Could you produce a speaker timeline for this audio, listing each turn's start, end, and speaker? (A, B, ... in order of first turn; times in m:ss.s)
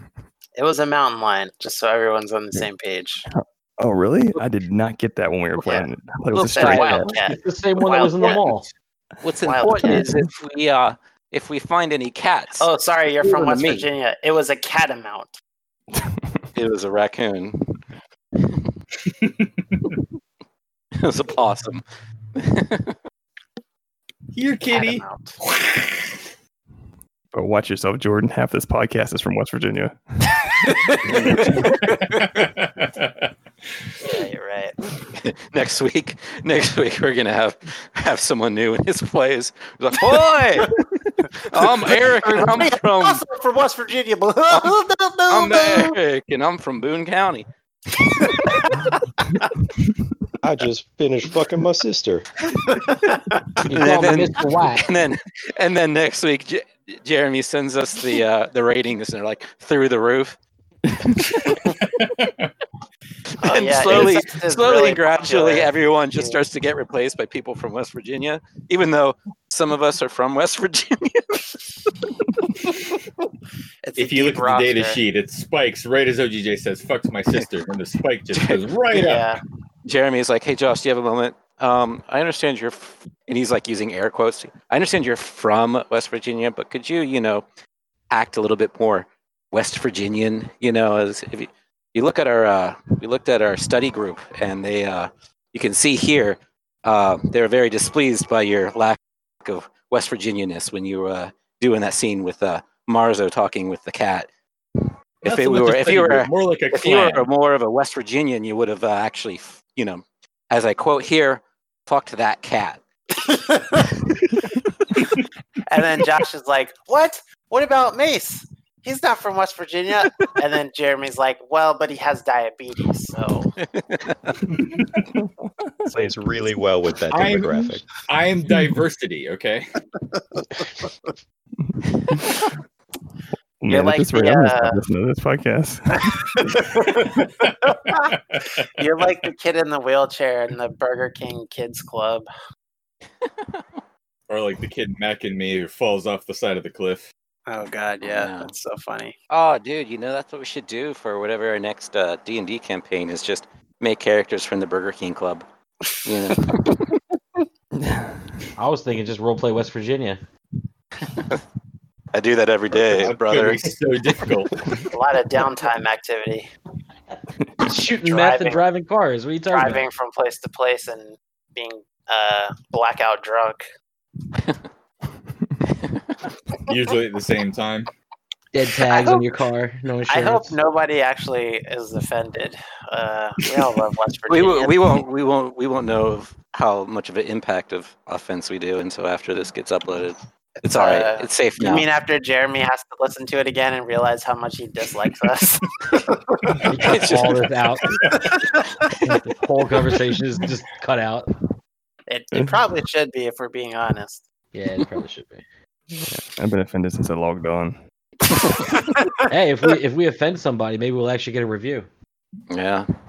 0:00.6-0:03.2 A
0:03.3-0:07.2 B
0:05.6-0:08.3 A
0:06.6-0:08.7 C
0:08.0-0:08.6 D
0:09.2-0:12.7 E
0:09.4-0:10.1 A
0:09.8-0:10.2 B
0:12.6-0:15.4 A
0:13.2-0:13.9 E
0:16.6-0:17.6 E
0:19.2-0:19.8 D
0:21.0-0:21.8 E
0:22.4-0:22.9 E
0:24.3-0:26.2 D
0:24.7-0:25.4 A
0:27.3-0:30.0 B
0:30.9-0:31.8 E
0:31.6-0:31.9 A
0:31.8-0:33.3 D
0:34.0-0:34.8 A
0:35.2-0:43.2 E
0:41.6-0:46.0 A
0:44.5-0:47.5 E
0:48.3-0:49.0 A
0:50.4-0:52.3 F
0:52.7-0:53.4 A
0:53.7-0:54.9 C
0:53.7-1:00.4 E
1:01.0-1:01.8 E
1:01.6-1:02.5 D
1:03.4-1:06.4 A
1:03.4-1:12.1 E
1:13.8-1:15.0 A
1:14.0-1:19.3 D
1:18.3-1:18.7 E
1:18.9-1:19.4 A
1:19.9-1:27.4 E
1:28.1-1:44.3 E
1:45.2-1:52.8 E
1:45.2-1:47.3 D
1:53.4-1:53.9 A
1:55.7-2:03.5 A
2:03.7-2:04.4 E
2:04.7-2:05.0 D
2:05.9-2:07.9 F
2:07.1-2:09.6 D
2:13.6-2:16.2 B
2:13.7-2:14.8 A
2:16.1-2:18.0 A
2:17.2-2:18.6 D
2:18.8-2:22.3 A
2:24.3-2:27.1 D
2:27.5-2:29.1 A
2:28.0-2:28.5 E
2:29.3-2:35.4 E
2:36.0-2:36.8 E
2:37.8-2:38.2 B
2:38.6-2:40.2 C
2:41.1-2:41.4 E
2:42.1-2:43.7 E
2:42.7-2:44.5 D
2:44.9-2:46.5 A
2:47.6-2:49.8 C
2:48.0-2:48.6 A
2:49.5-2:53.6 A
2:56.7-2:57.9 D
2:58.5-3:00.6 C
2:58.9-2:59.2 A
3:00.1-3:04.9 A
3:04.3-3:11.9 E
3:10.8-3:16.6 A
3:16.6-3:17.4 D
3:16.6-3:17.9 C
3:16.8-3:17.4 E
3:18.2-3:18.7 A
3:19.0-3:21.3 C
3:22.1-3:24.2 A
3:24.5-3:25.4 C
3:26.0-3:27.8 B
3:28.8-3:29.0 A
3:29.3-3:31.9 C
3:32.5-3:32.9 E